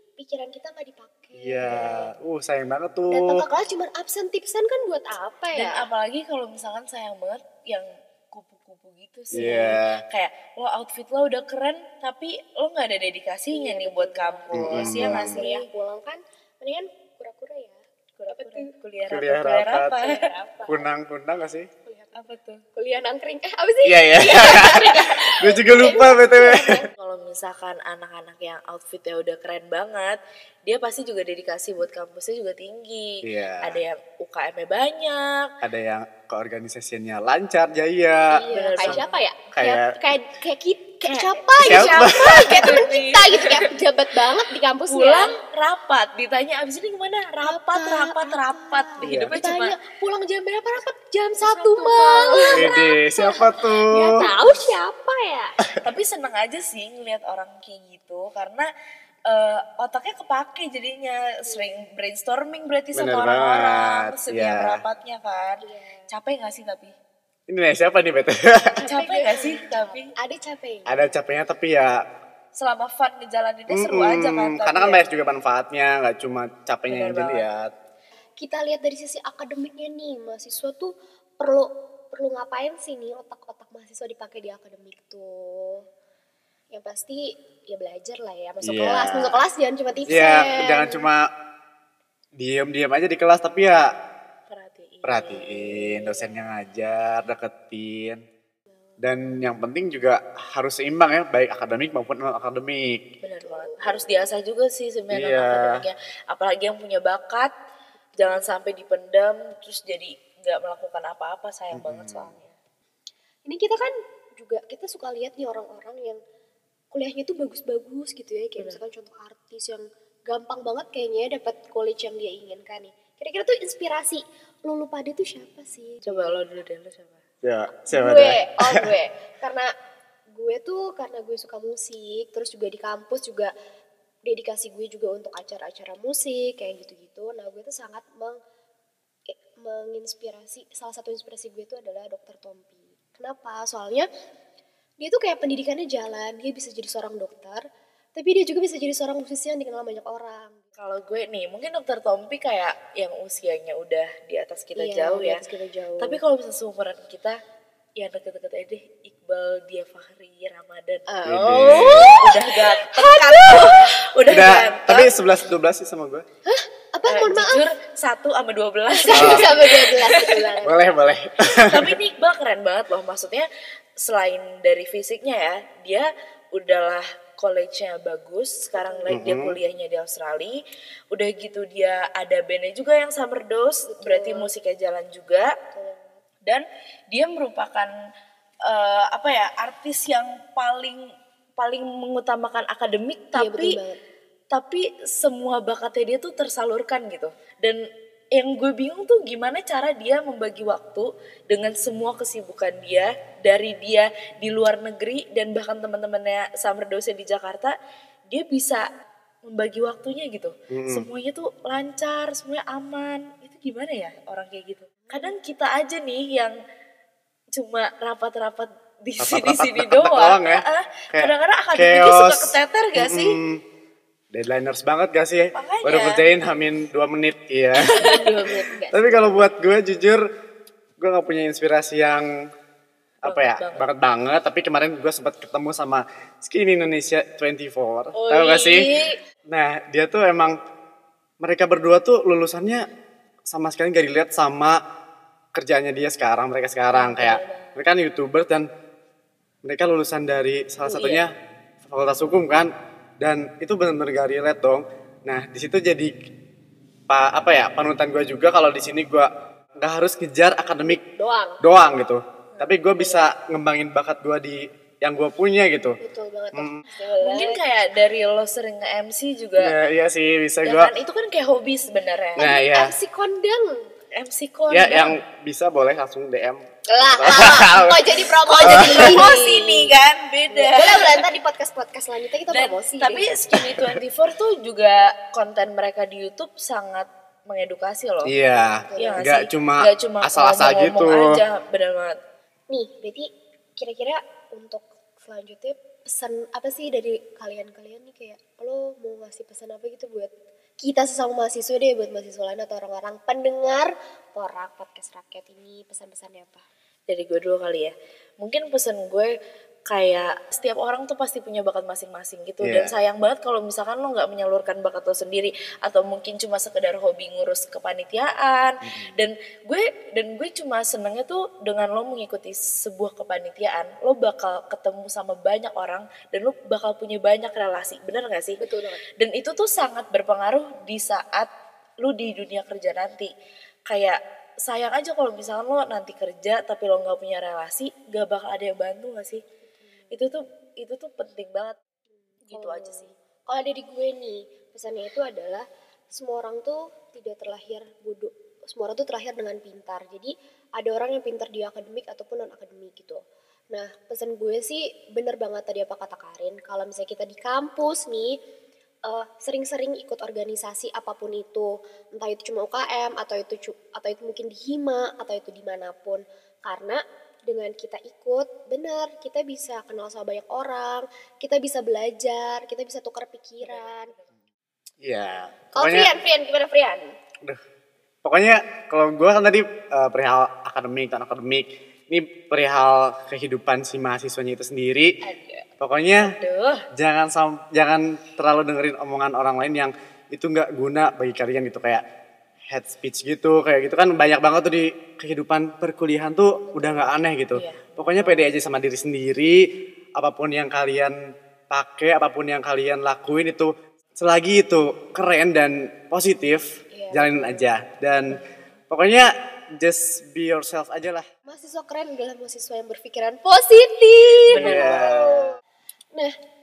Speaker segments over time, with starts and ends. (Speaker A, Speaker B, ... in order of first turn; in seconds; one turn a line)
Speaker A: 0.2-2.1
Speaker B: 1.3-3.5
Speaker A: 3.1-5.9
Speaker C: 5.5-15.7
Speaker B: 9.3-10.0
Speaker A: 13.5-18.7
Speaker B: 14.5-15.4
Speaker C: 18.2-20.7
Speaker B: 19.1-20.1
Speaker A: 20.0-20.7
Speaker B: 20.7-21.7
Speaker A: 21.8-26.9
Speaker C: 22.1-22.6
Speaker B: 23.8-26.9
Speaker C: 27.0-35.5
Speaker B: 33.2-33.8
Speaker B: 35.6-40.0
Speaker A: 38.3-45.4
Speaker C: 38.5-39.2
Speaker C: 41.0-43.7
Speaker B: 41.6-42.8
Speaker C: 44.9-49.8
Speaker A: 47.4-55.6
Speaker B: 49.0-49.3
Speaker C: 51.4-52.8
Speaker B: 52.5-54.3
Speaker C: 55.8-58.7
Speaker C: 59.3-66.9
Speaker A: 61.4-61.8
Speaker B: 62.9-64.8
Speaker A: 65.6-66.1
Speaker B: 67.5-68.9
Speaker A: 68.8-71.1
Speaker C: 68.8-70.1
Speaker B: 70.9-72.0
Speaker C: 72.5-75.1
Speaker B: 73.7-77.7
Speaker C: 76.9-77.5
Speaker A: 78.4-85.9
Speaker A: 86.7-91.1
Speaker B: 88.6-89.4
Speaker B: 90.1-91.3
Speaker B: 92.4-93.9
Speaker C: 94.5-96.4
Speaker B: 95.0-98.2
Speaker B: 99.0-103.0
Speaker C: 103.2-107.5
Speaker A: 103.4-104.2
Speaker B: 105.1-105.8
Speaker A: 108.1-108.5
Speaker C: 108.2-112.5
Speaker B: 111.7-112.3
Speaker A: 113.4-116.2
Speaker A: 116.9-126.4
Speaker C: 126.1-127.2
Speaker B: 127.4-128.9
Speaker A: 127.9-129.7
Speaker A: 130.3-133.5
Speaker A: 134.2-138.4
Speaker A: 139.3-144.1
Speaker A: 145.0-147.6
Speaker A: 148.1-150.6
Speaker C: 150.8-155.4
Speaker A: 154.8-156.2
Speaker C: 156.0-157.4
Speaker C: 158.0-161.1
Speaker A: 161.1-163.8
Speaker B: 161.2-162.2
Speaker C: 162.1-165.3
Speaker B: 164.3-166.2
Speaker A: 166.4-167.7
Speaker C: 167.1-170.6
Speaker A: 168.9-171.0
Speaker B: 169.1-169.6
Speaker B: 170.6-171.9
Speaker C: 171.6-173.5
Speaker C: 174.0-180.6
Speaker A: 178.7-179.2
Speaker B: 179.1-179.6
Speaker C: 181.1-185.5
Speaker A: 183.9-184.5
Speaker A: 185.7-186.2
Speaker C: 186.4-187.9
Speaker C: 188.6-193.8
Speaker A: 193.3-194.0
Speaker C: 194.5-197.8
Speaker C: 198.3-207.8
Speaker C: 208.3-208.9
Speaker C: 209.4-216.6
Speaker B: 210.7-211.1
Speaker C: 217.5-223.4
Speaker B: 219.2-223.6
Speaker B: 224.3-228.3
Speaker C: 225.5-226.3
Speaker C: 227.8-228.8
Speaker A: 228.1-229.5
Speaker B: 228.9-230.2
Speaker B: 231.0-232.5
Speaker B: 233.2-238.9
Speaker C: 233.2-233.9
Speaker C: 238.1-239.2
Speaker B: 239.5-240.6
Speaker B: 241.4-242.9
Speaker B: 243.5-244.8
Speaker B: 245.6-248.7
Speaker C: 246.9-247.8
Speaker B: 249.6-251.3
Speaker C: 250.8-251.3
Speaker B: 251.9-256.1
Speaker B: 257.1-261.0
Speaker A: 260.8-261.6
Speaker B: 261.6-266.0
Speaker C: 262.5-263.3
Speaker A: 266.0-267.6
Speaker B: 266.5-266.8
Speaker C: 267.0-269.7
Speaker B: 269.6-270.9
Speaker C: 270.6-272.6
Speaker B: 272.4-272.9
Speaker A: 272.4-273.9
Speaker C: 274.1-275.1
Speaker B: 274.7-279.3
Speaker A: 276.9-279.9
Speaker C: 278.5-281.2
Speaker A: 280.5-283.4
Speaker C: 282.5-288.3
Speaker B: 283.5-284.0
Speaker B: 288.2-291.4
Speaker A: 288.9-289.3
Speaker C: 289.0-292.2
Speaker A: 292.7-306.6
Speaker C: 307.1-309.3
Speaker C: 309.9-328.6
Speaker B: 312.6-312.9
Speaker B: 318.8-319.1
Speaker A: 328.6-329.0
Speaker C: 329.2-331.5
Speaker C: 332.0-333.3
Speaker C: 333.9-339.4
Speaker C: 340.1-341.8
Speaker C: 342.4-343.1
Speaker A: 342.5-353.2
Speaker A: 353.7-358.4
Speaker A: 359.1-374.1
Speaker C: 373.6-374.3
Speaker B: 375.0-376.1
Speaker A: 375.7-377.1
Speaker B: 378.2-385.1
Speaker C: 385.2-385.6
Speaker B: 385.8-386.4
Speaker C: 386.2-386.8
Speaker B: 386.9-392.0
Speaker B: 392.7-401.2
Speaker C: 397.5-398.5
Speaker B: 401.7-411.2
Speaker A: 406.9-407.6
Speaker A: 411.4-415.4
Speaker C: 414.4-415.2
Speaker B: 414.5-415.5